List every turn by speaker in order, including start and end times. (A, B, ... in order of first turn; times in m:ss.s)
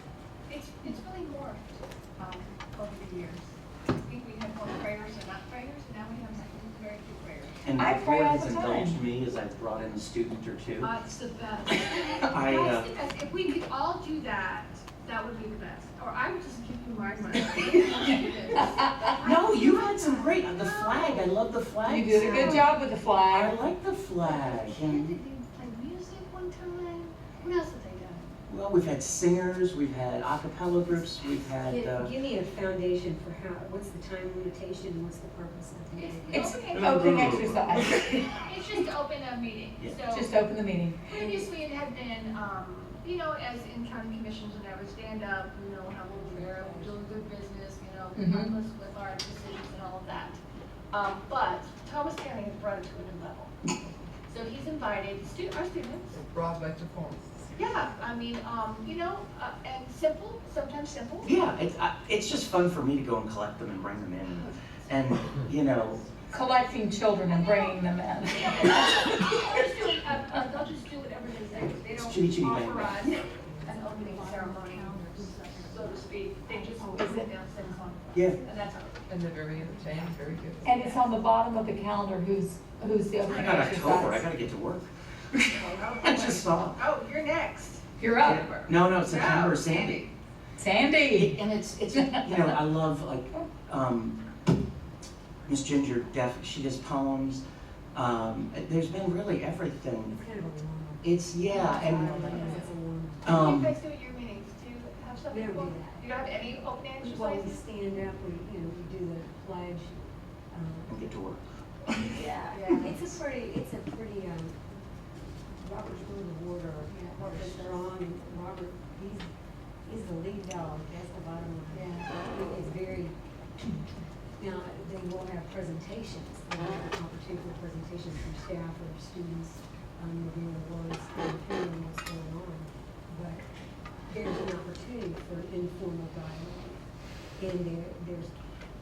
0:00.5-0:07.6 A
0:07.6-0:10.9 B
0:07.8-0:09.0 C
0:10.8-0:21.3 A
0:12.2-0:12.9 B
0:19.2-0:22.7 B
0:21.8-0:23.6 C
0:22.1-0:22.7 A
0:23.3-0:25.2 B
0:24.2-0:28.3 A
0:28.5-0:32.1 B
0:31.6-0:36.5 D
0:35.9-0:37.2 A
0:36.3-0:38.0 C
0:36.7-0:38.3 B
0:38.0-0:40.4 A
0:40.1-0:41.0 C
0:41.0-0:50.4 A
0:46.1-0:46.9 D
0:48.1-0:48.5 C
0:50.9-0:53.5 A
0:54.3-0:56.2 A
0:56.2-0:57.3 E
0:57.6-1:01.3 A
1:01.2-1:06.0 B
1:06.3-1:09.0 C
1:07.3-1:19.1 A
1:12.0-1:13.2 B
1:13.2-1:15.8 D
1:16.8-1:17.3 C
1:19.1-1:20.6 E
1:20.6-1:21.1 A
1:20.6-1:24.2 C
1:23.2-1:26.8 B
1:23.3-1:24.0 A
1:25.5-1:30.1 A
1:28.0-1:28.5 C
1:28.2-1:30.0 B
1:30.6-1:31.4 C
1:31.1-1:34.2 B
1:31.9-1:32.5 C
1:35.4-1:37.4 B
1:37.9-1:40.2 B
1:40.1-1:43.2 D
1:41.0-1:42.6 B
1:42.0-1:42.6 A
1:43.2-1:43.8 B
1:43.2-1:47.6 A
1:45.3-1:46.0 D
1:47.0-1:49.9 D
1:50.5-1:50.9 D
1:50.9-1:52.3 B
1:52.1-1:54.8 D
1:52.4-1:53.0 A
1:55.5-1:59.3 D
1:56.9-1:57.9 A
1:59.8-2:03.2 D
2:01.7-2:02.1 A
2:04.4-2:13.4 D
2:14.1-2:16.8 D
2:17.4-2:18.3 D